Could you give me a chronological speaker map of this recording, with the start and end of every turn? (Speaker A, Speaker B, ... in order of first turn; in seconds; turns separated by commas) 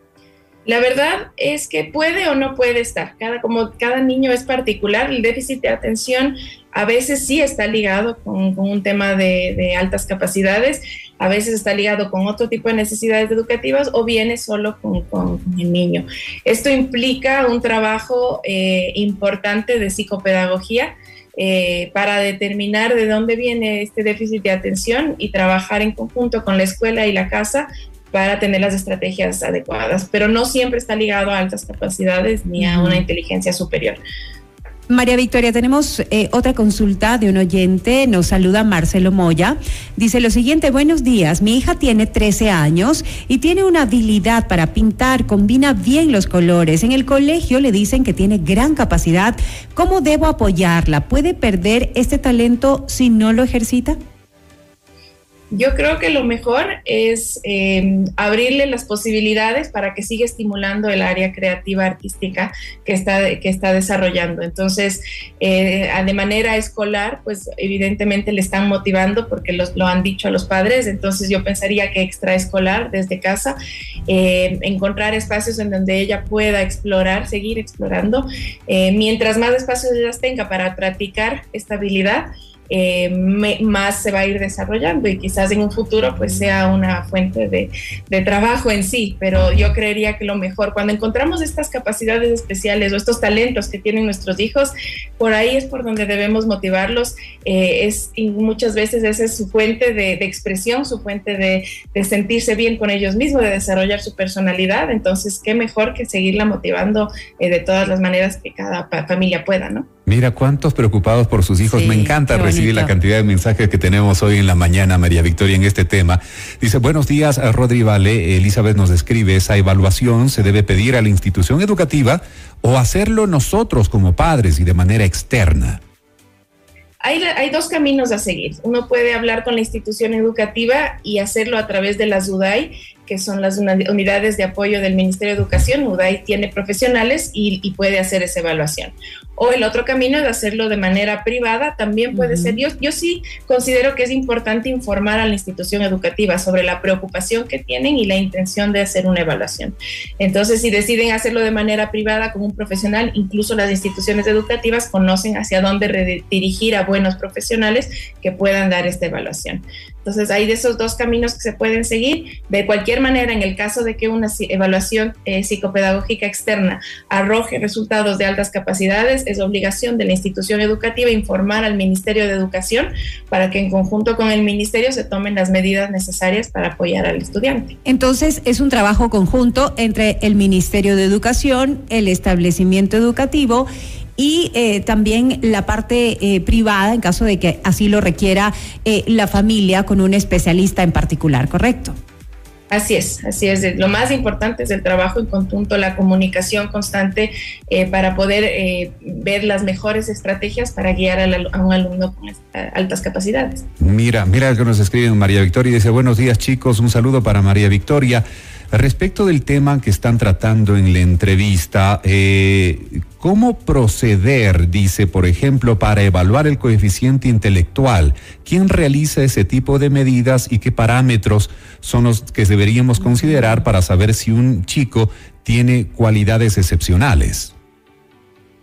Speaker A: 0.7-34.0, Speaker B: 32.6-33.0, Speaker B: 34.9-54.0, Speaker A: 55.5-73.5, Speaker A: 74.1-109.8, Speaker C: 110.0-125.8, Speaker B: 111.6-112.9, Speaker A: 127.0-177.7, Speaker B: 142.1-142.6, Speaker B: 177.8-191.9, Speaker A: 192.7-203.6, Speaker C: 203.8-227.5